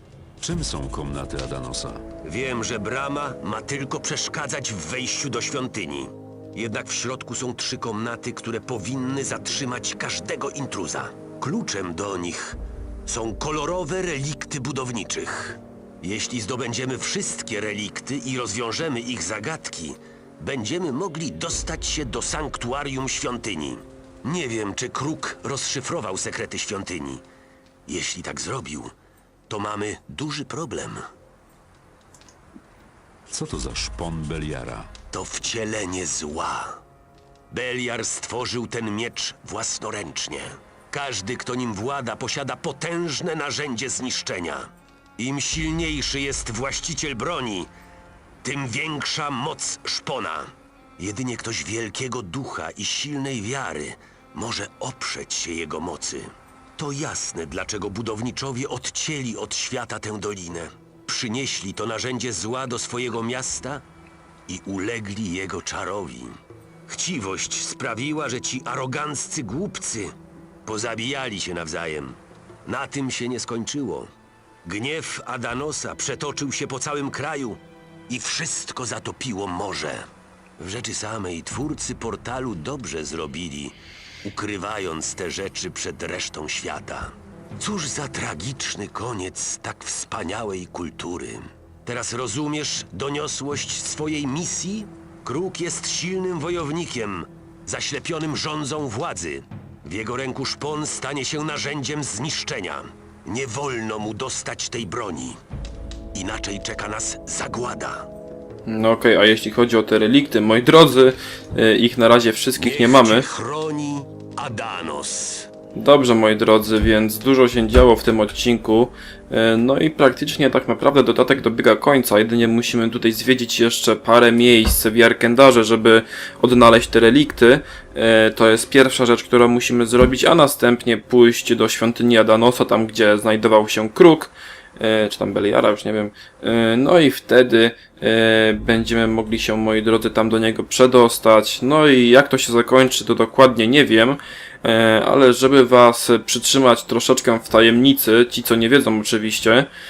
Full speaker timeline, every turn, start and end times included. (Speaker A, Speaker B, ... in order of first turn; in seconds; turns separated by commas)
Speaker A: 0.4-2.0, Speaker B: 2.2-27.2, Speaker B: 27.9-28.9, Speaker B: 29.5-31.0, Speaker A: 33.3-34.9, Speaker B: 35.1-36.8, Speaker B: 37.5-47.7, Speaker B: 48.4-63.8, Speaker B: 64.5-70.1, Speaker B: 70.6-74.1, Speaker B: 74.6-80.1, Speaker B: 80.6-105.4, Speaker B: 106.1-108.1, Speaker C: 108.7-113.3, Speaker B: 112.6-115.5, Speaker C: 115.7-149.7